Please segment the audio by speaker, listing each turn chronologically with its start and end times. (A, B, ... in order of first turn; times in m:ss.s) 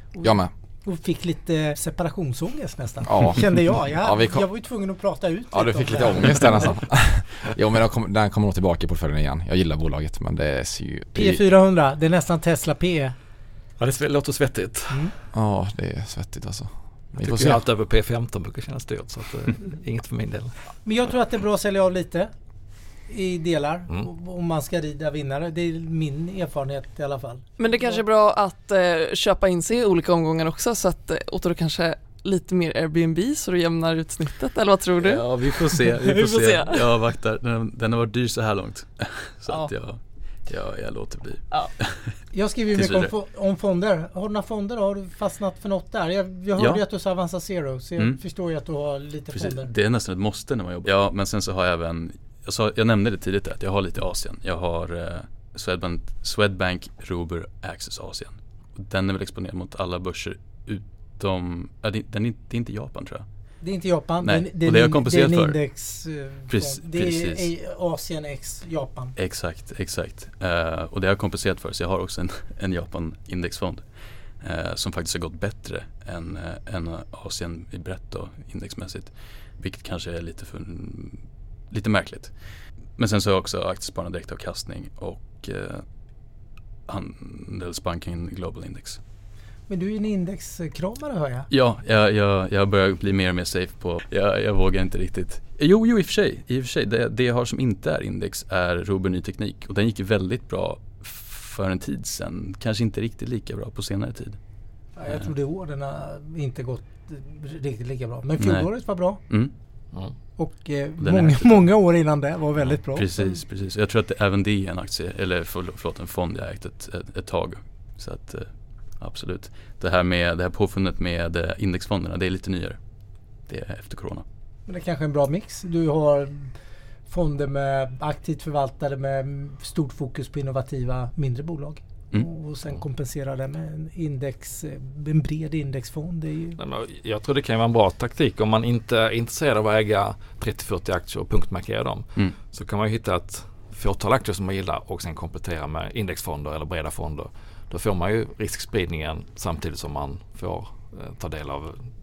0:00.1-0:06.8 A
0:00.2-0:00.5 B
0:03.0-0:04.5 B
0:05.5-0:11.4 B
0:11.1-0:13.1 A
0:13.8-0:15.1 C
0:15.3-0:17.6 B
0:17.2-0:20.6 C
0:20.8-0:22.3 A
0:23.1-0:28.0 A
0:27.6-0:36.8 D
0:34.9-0:43.1 E
0:42.3-0:49.7 A
0:46.6-0:46.8 E
0:49.3-1:03.2 E
1:03.6-1:09.1 A
1:04.2-1:05.6 E
1:06.5-1:07.5 E
1:09.2-1:25.8 E
1:26.9-1:29.0 E
1:29.7-1:31.5 A
1:31.5-1:44.4 E
1:45.0-1:49.2 A
1:48.4-1:49.5 E
1:50.4-1:53.1 A
1:51.0-1:51.8 E
1:52.9-2:04.2 E
2:04.7-2:06.5 A
2:07.1-2:16.6 A
2:16.6-2:31.9 C